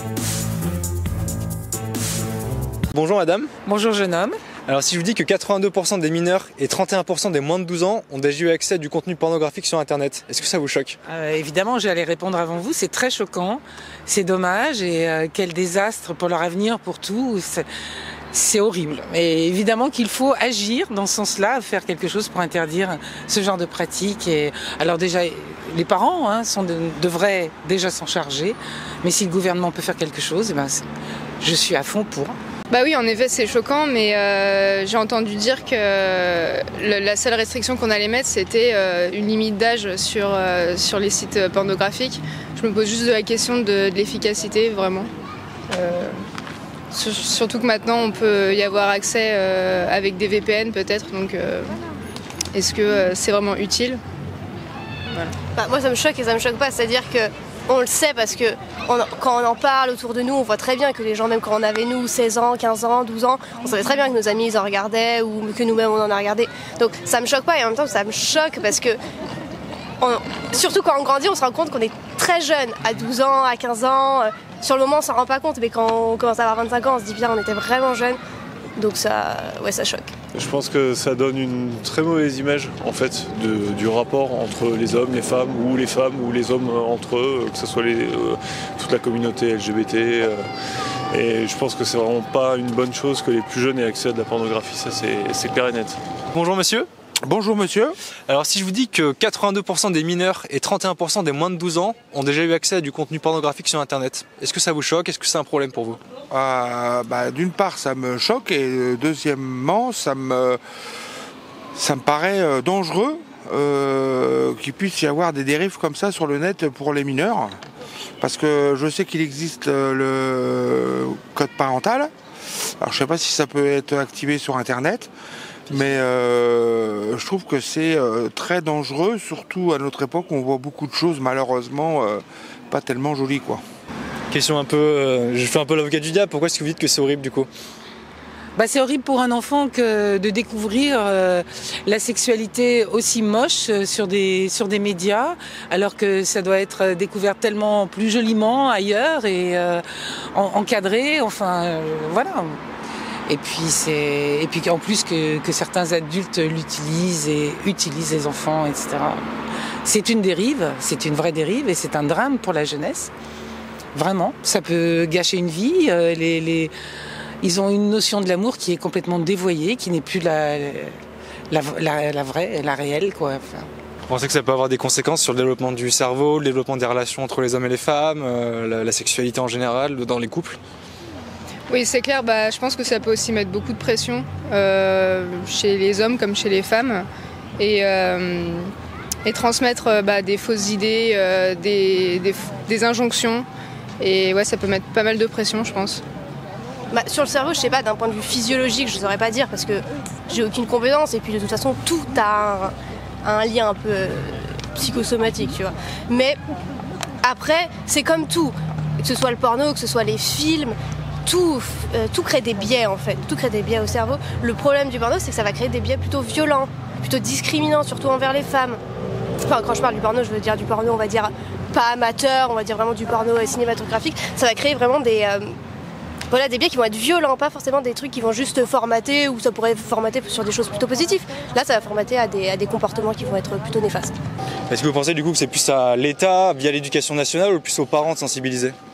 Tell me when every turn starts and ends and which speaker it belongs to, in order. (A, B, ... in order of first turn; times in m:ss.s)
0:02.9-0:03.5 A
0:03.6-0:04.4 B
0:04.7-0:11.0 A
0:11.0-0:17.6 B
0:18.3-0:30.8 B
0:31.4-0:32.4 B
0:32.7-0:45.1 C
0:45.7-0:46.2 C
0:46.9-0:51.8 C
0:52.5-0:54.0 C
0:55.5-1:09.0 D
1:10.0-1:18.2 D
1:18.8-1:20.1 D
1:20.3-1:30.5 E
1:31.1-1:36.0 E
1:36.3-1:36.9 A
1:37.2-1:37.9 F
1:38.3-1:46.0 A
1:46.3-1:50.6 F
1:51.7-1:57.6 F
1:58.2-2:02.1 F
2:02.8-2:05.1 F
2:05.7-2:13.6 F
2:14.3-2:17.5 A
2:18.6-2:32.6 B
2:33.3-2:39.2 B
2:39.8-2:43.1 B
2:43.9-2:46.7 B
2:47.4-2:51.0 B
2:51.5-2:53.7 B
2:54.1-3:00.6 A
3:01.7-3:07.0 C
3:07.6-3:08.7 C
3:09.2-3:13.4 C
3:14.0-3:16.0 C
3:16.9-3:26.4 D
3:27.2-3:38.8 D
3:39.4-3:45.5 D
3:46.3-3:54.1 D
3:54.7-3:58.8 A